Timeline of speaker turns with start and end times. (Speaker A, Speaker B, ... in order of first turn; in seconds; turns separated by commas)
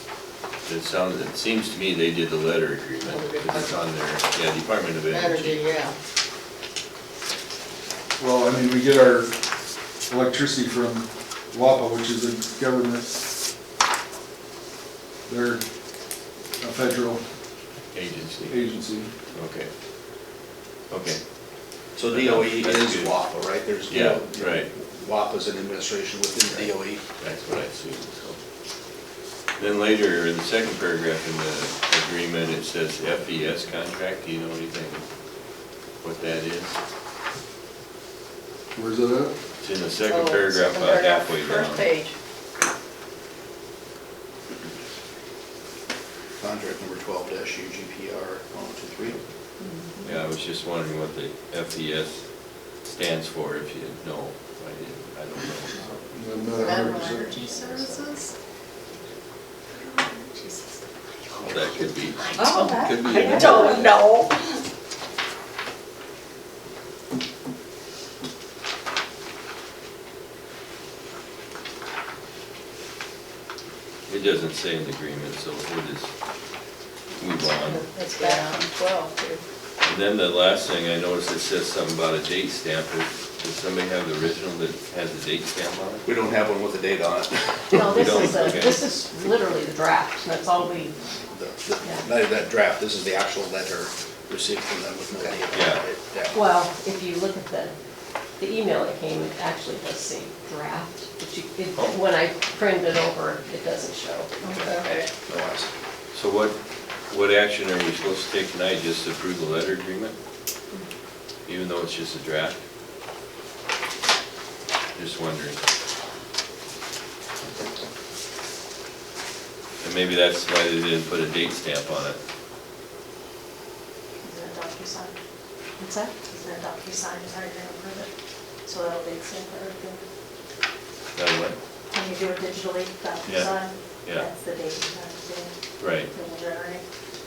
Speaker A: 0.7-5.7, Speaker B: 3.0-3.8, Speaker B: 5.1-6.0, Speaker C: 8.2-9.3, Speaker C: 10.1-13.1, Speaker C: 15.3-15.6, Speaker C: 16.6-17.2, Speaker A: 17.9-18.7, Speaker C: 18.5-19.1, Speaker A: 19.3-19.7, Speaker A: 20.9-21.2, Speaker D: 22.0-27.0, Speaker A: 22.1-23.2, Speaker A: 23.9-24.7, Speaker A: 27.2-28.4, Speaker A: 29.6-35.0, Speaker A: 36.0-36.8, Speaker C: 38.8-39.4, Speaker A: 39.6-41.9, Speaker B: 40.1-42.1, Speaker D: 46.4-49.2, Speaker A: 50.0-52.2, Speaker A: 52.8-55.8, Speaker C: 56.1-57.4, Speaker E: 56.7-58.2, Speaker B: 57.0-57.8, Speaker F: 57.9-58.2, Speaker E: 59.9-60.5, Speaker A: 61.4-63.9, Speaker E: 62.2-63.9, Speaker B: 62.4-64.6, Speaker A: 74.1-76.1, Speaker A: 77.2-77.9, Speaker B: 77.6-79.4, Speaker A: 79.8-86.1, Speaker D: 86.1-88.6, Speaker E: 87.7-91.0, Speaker A: 87.7-88.8, Speaker D: 91.3-96.4, Speaker A: 95.5-95.8, Speaker E: 96.3-97.7, Speaker E: 98.4-104.7, Speaker D: 104.6-105.7, Speaker B: 104.6-105.1, Speaker A: 106.1-106.6, Speaker A: 107.1-110.1, Speaker A: 111.5-112.6, Speaker A: 115.0-115.6, Speaker A: 119.8-122.2, Speaker F: 124.2-125.1, Speaker E: 125.8-126.2, Speaker F: 126.2-128.1, Speaker F: 128.7-130.0, Speaker A: 131.2-131.6, Speaker F: 131.9-136.8, Speaker A: 133.2-134.3, Speaker A: 135.8-136.1